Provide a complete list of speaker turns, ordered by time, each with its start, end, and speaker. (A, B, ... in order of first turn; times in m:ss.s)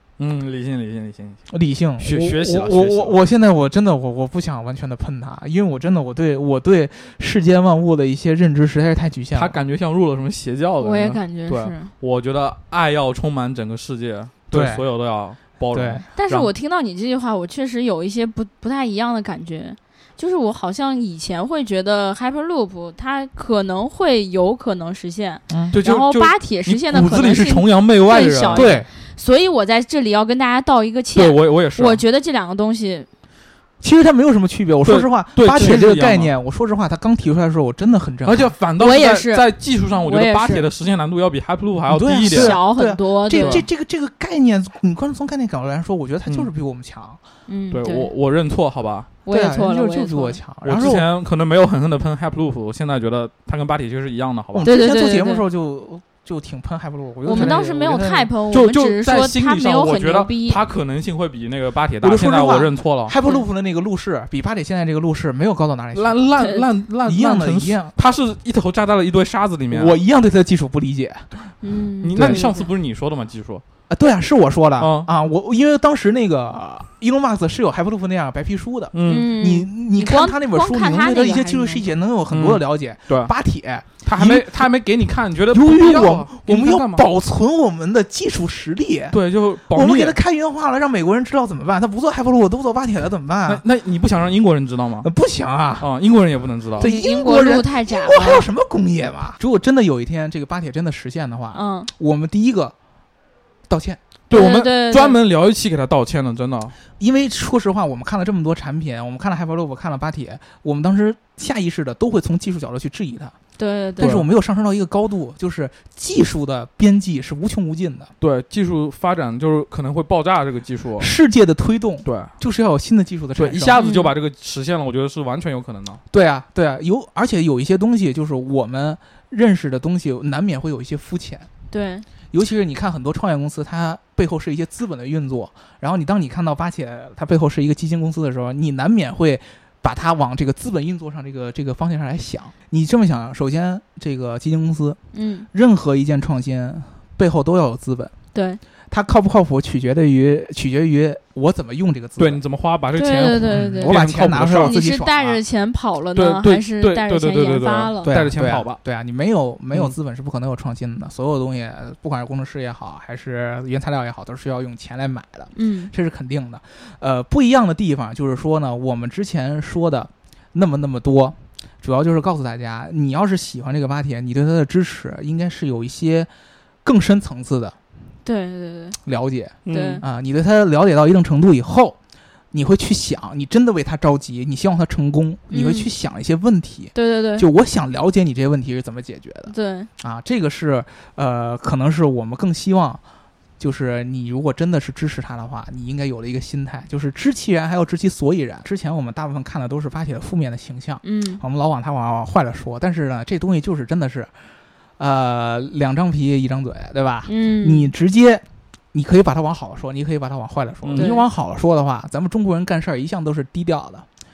0:00.2-0:01.4 A
0:01.5-0:09.6 B
0:02.0-0:03.2 A
0:09.4-0:16.1 A
0:10.8-0:11.9 C
0:14.5-0:14.8 B
0:15.7-0:16.5 B
0:16.1-0:33.1 C
0:25.5-0:25.8 B
0:25.7-0:28.8 A
0:28.5-0:28.9 B
0:31.1-0:32.0 A
0:33.8-0:38.5 B
0:34.8-0:36.3 A
0:38.2-0:42.6 A
0:38.8-0:40.6 C
0:41.9-0:47.2 B
0:42.2-0:43.6 C
0:43.4-0:43.6 A
0:47.5-0:48.1 C
0:47.7-0:49.1 A
0:49.2-0:50.4 C
0:49.3-0:51.1 B
0:50.6-0:54.7 A
0:54.5-0:58.3 B
0:54.6-0:55.4 C
0:57.2-1:00.6 C
0:57.3-0:57.6 A
0:58.5-1:03.2 A
1:02.0-1:06.2 B
1:05.9-1:09.9 A
1:06.4-1:06.6 C
1:07.0-1:07.9 B
1:09.7-1:11.3 B
1:11.6-1:12.7 C
1:12.0-1:13.6 A
1:12.2-1:12.5 B
1:13.9-1:24.5 B
1:14.8-1:15.1 A
1:18.9-1:19.3 A
1:19.0-1:21.9 C
1:22.3-1:23.3 A
1:24.0-1:27.1 A
1:25.5-1:29.2 B
1:29.1-1:30.2 A
1:29.7-1:33.6 B
1:33.5-1:35.1 A
1:35.0-1:35.9 B
1:35.8-1:36.9 A
1:36.8-1:42.7 B
1:36.8-1:38.5 C
1:41.5-1:41.9 C
1:43.7-1:44.0 B
1:44.3-1:46.8 A
1:44.3-1:45.2 C
1:47.0-1:53.3 B
1:53.6-1:54.2 C
1:54.0-1:58.1 B
1:54.0-1:54.3 A
1:58.2-2:01.1 A
2:01.0-2:03.8 B
2:02.0-2:02.3 A
2:03.4-2:06.0 A
2:03.8-2:04.1 C
2:06.1-2:11.5 B
2:11.7-2:12.1 C
2:12.3-2:25.0 B
2:25.1-2:25.5 C
2:25.5-2:28.1 B
2:28.3-2:28.6 C
2:28.9-2:32.4 B
2:32.2-2:34.8 A
2:33.0-2:34.0 C
2:33.0-2:35.4 B
2:34.6-2:38.2 C
2:36.2-2:38.8 A
2:38.1-2:56.3 B
2:45.5-2:45.9 C
2:56.8-2:57.8 B
2:58.2-2:59.0 C
2:59.1-3:02.0 B
2:59.6-3:00.0 A
2:59.7-3:00.0 C
3:02.5-3:13.0 B
3:05.5-3:05.9 C
3:06.9-3:07.5 C
3:09.5-3:09.9 C
3:13.6-3:24.4 B
3:21.0-3:21.4 C
3:25.0-3:34.1 B
3:27.3-3:27.9 C
3:30.8-3:31.1 A
3:31.0-3:31.2 C